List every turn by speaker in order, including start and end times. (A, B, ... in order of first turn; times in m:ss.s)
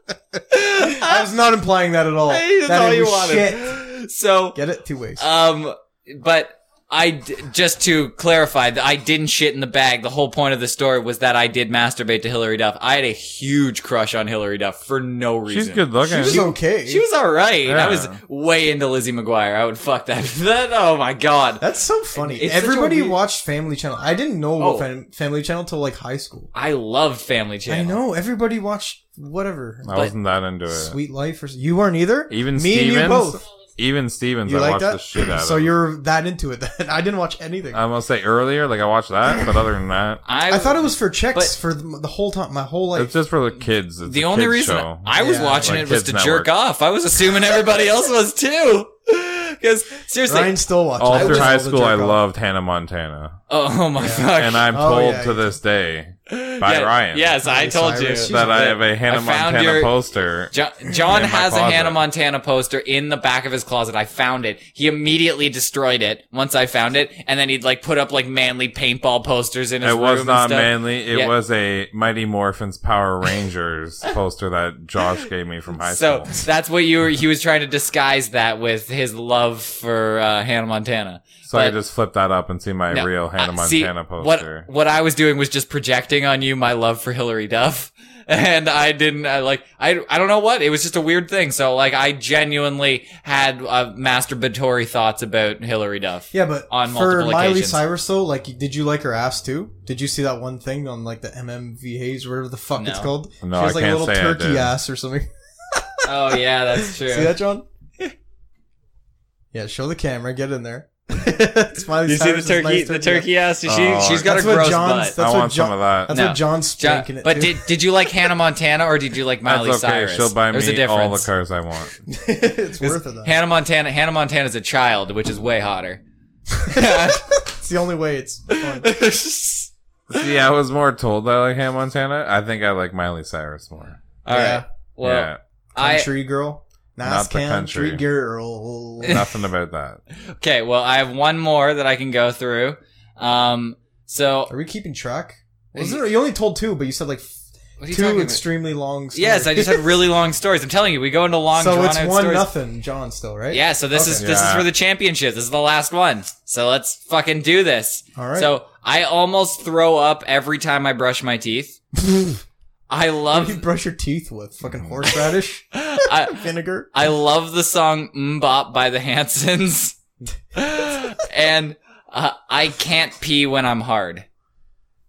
0:00.5-0:01.2 A
0:00.8-0:03.8 B
0:02.3-0:04.6 A
0:04.5-0:05.2 B
0:05.2-0:23.2 A
0:15.5-0:16.4 C
0:16.1-0:17.0 B
0:17.6-0:18.2 C
0:21.6-0:26.5 B
0:24.6-0:24.9 A
0:26.5-0:28.0 A
0:27.7-0:30.0 B
0:29.8-0:31.0 C
0:30.7-0:33.4 B
0:32.3-0:35.7 C
0:34.4-0:37.8 B
0:37.7-0:40.2 C
0:40.2-0:41.5 A
0:40.5-0:43.1 B
0:43.0-0:46.5 C
0:44.0-0:51.5 A
0:45.2-0:45.9 B
0:50.3-0:52.2 B
0:51.0-0:53.4 C
0:53.5-0:54.7 A
0:54.0-0:55.5 B
0:54.3-0:57.3 C
0:56.3-0:59.9 A
0:57.4-0:58.7 B
0:58.2-1:00.5 C
1:00.5-1:11.3 A
1:01.0-1:02.0 C
1:09.8-1:16.4 C
1:15.8-1:21.8 A
1:21.5-1:24.7 C
1:22.9-1:37.8 A
1:36.3-1:47.6 B
1:42.8-1:43.1 A
1:43.4-1:44.7 C
1:46.0-1:47.4 A
1:49.5-1:53.3 B
1:52.0-1:55.2 A
1:53.6-1:54.3 C
1:54.0-1:57.7 B
1:55.2-1:56.1 C
1:56.1-2:01.3 A
1:59.4-2:01.9 C
2:02.1-2:03.3 B
2:02.8-2:06.0 A
2:06.6-2:08.9 B
2:06.6-2:07.3 A
2:08.5-2:10.3 A
2:10.1-2:14.0 C
2:14.2-2:16.1 A
2:14.3-2:14.6 B
2:15.0-2:15.4 C
2:15.8-2:19.2 B
2:17.0-2:18.0 C
2:19.0-2:20.0 C
2:20.4-2:24.5 A
2:24.5-2:27.3 B
2:25.8-2:26.0 A
2:27.8-2:28.4 A
2:27.9-2:30.0 B
2:29.1-2:32.5 A
2:31.5-2:34.3 B
2:33.5-2:41.8 A
2:34.2-2:34.7 C
2:38.2-2:38.5 B
2:41.9-2:42.4 B
2:42.9-2:43.6 A
2:43.3-2:46.9 B
2:45.7-2:50.0 A
2:50.5-2:54.2 A